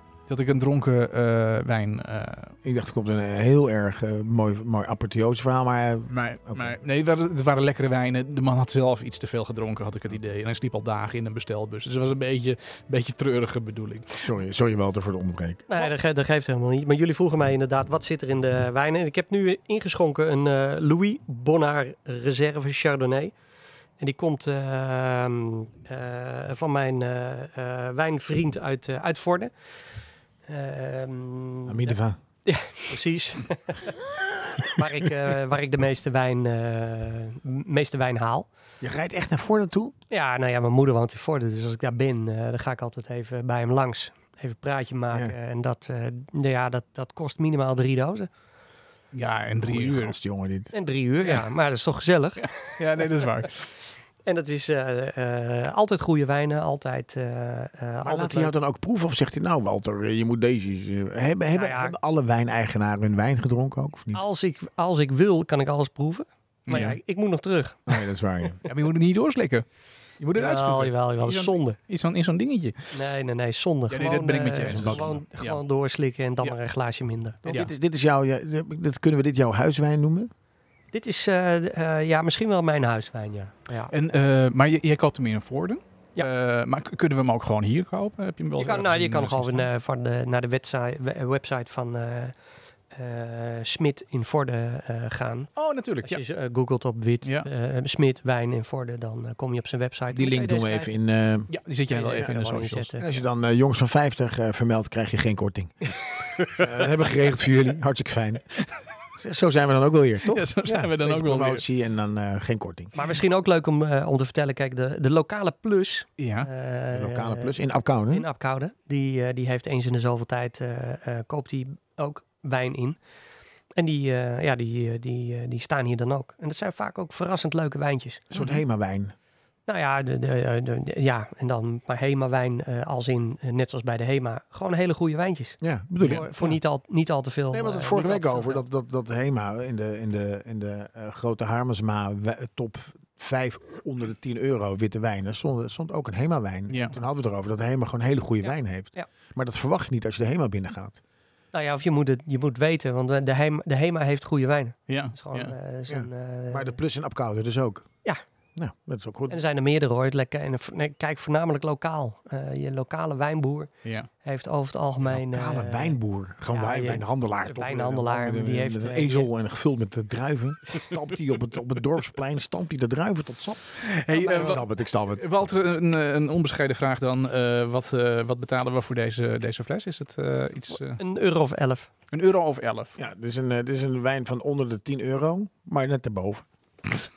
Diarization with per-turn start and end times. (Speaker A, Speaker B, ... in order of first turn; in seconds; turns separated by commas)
Speaker A: 0.3-2.5, Speaker B: 2.6-6.7, Speaker A: 6.1-14.3, Speaker B: 14.2-15.7, Speaker C: 15.7-23.3, Speaker C: 24.0-29.5, Speaker C: 30.5-34.0, Speaker B: 31.7-32.2, Speaker C: 34.6-38.5, Speaker B: 38.8-39.9, Speaker C: 40.1-48.3, Speaker A: 49.1-50.1, Speaker B: 49.6-50.7, Speaker C: 50.7-52.8, Speaker A: 52.4-53.7, Speaker C: 54.2-58.5, Speaker B: 58.0-64.2, Speaker C: 61.5-62.0, Speaker C: 64.1-68.0, Speaker A: 66.7-67.0, Speaker B: 66.7-67.0, Speaker B: 67.9-68.6, Speaker A: 68.6-69.6, Speaker A: 70.2-72.9, Speaker C: 70.3-71.8, Speaker C: 72.9-77.4, Speaker A: 73.9-75.6, Speaker B: 74.6-75.2, Speaker B: 77.4-80.3, Speaker A: 77.5-77.7, Speaker C: 80.9-83.9, Speaker A: 83.9-89.7, Speaker C: 88.6-92.3, Speaker C: 92.9-95.5, Speaker A: 95.5-96.2, Speaker C: 96.0-100.9, Speaker A: 97.2-97.5, Speaker B: 100.1-101.5, Speaker A: 101.5-102.9, Speaker C: 101.9-103.1, Speaker B: 103.0-105.9, Speaker A: 106.4-106.7, Speaker B: 106.5-108.5, Speaker B: 109.1-112.9, Speaker A: 110.2-111.6, Speaker C: 112.9-117.5, Speaker A: 116.2-116.5, Speaker B: 116.9-118.3, Speaker C: 118.1-123.0, Speaker C: 123.7-128.3, Speaker B: 128.3-129.1, Speaker A: 128.3-128.6, Speaker C: 129.7-138.6, Speaker B: 135.6-136.6, Speaker B: 137.5-151.0, Speaker A: 146.7-147.0, Speaker C: 148.4-149.1, Speaker C: 151.5-156.8, Speaker A: 154.9-155.5, Speaker B: 155.9-157.9, Speaker B: 158.6-159.4, Speaker C: 159.3-163.7, Speaker A: 163.8-164.1, Speaker C: 164.2-166.0, Speaker B: 165.0-173.8, Speaker C: 166.5-169.3, Speaker A: 173.8-181.0, Speaker C: 174.1-174.6, Speaker B: 174.3-175.5, Speaker C: 180.9-181.9, Speaker A: 182.1-182.9, Speaker B: 183.0-186.4